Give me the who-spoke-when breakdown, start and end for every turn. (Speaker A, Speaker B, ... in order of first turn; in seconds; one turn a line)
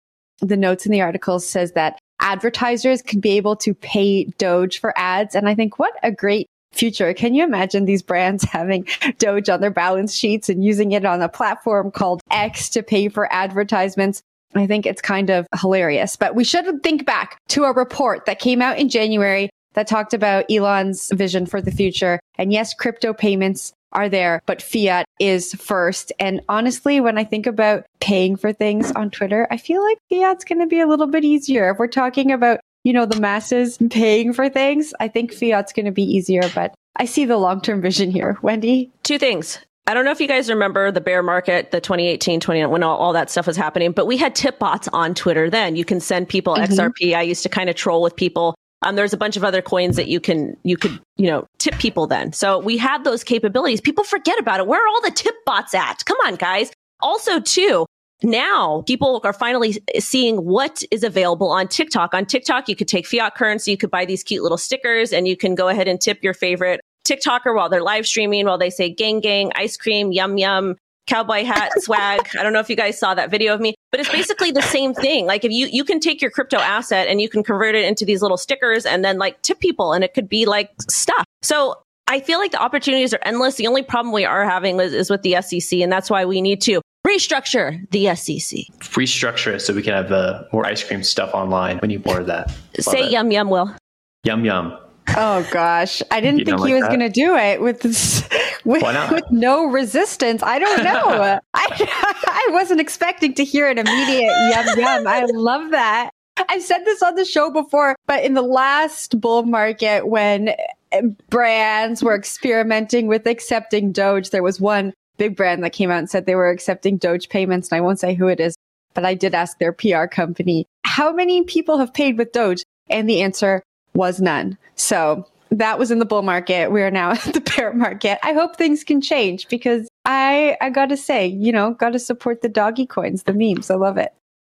Speaker A: 0.4-38.9
Speaker B: 39.0-88.7
Speaker A: 46.5-46.9
Speaker C: 88.8-93.2
Speaker B: 92.7-93.7
Speaker C: 94.2-94.8
Speaker A: 95.1-134.1
Speaker C: 96.3-97.0
Speaker C: 98.8-99.2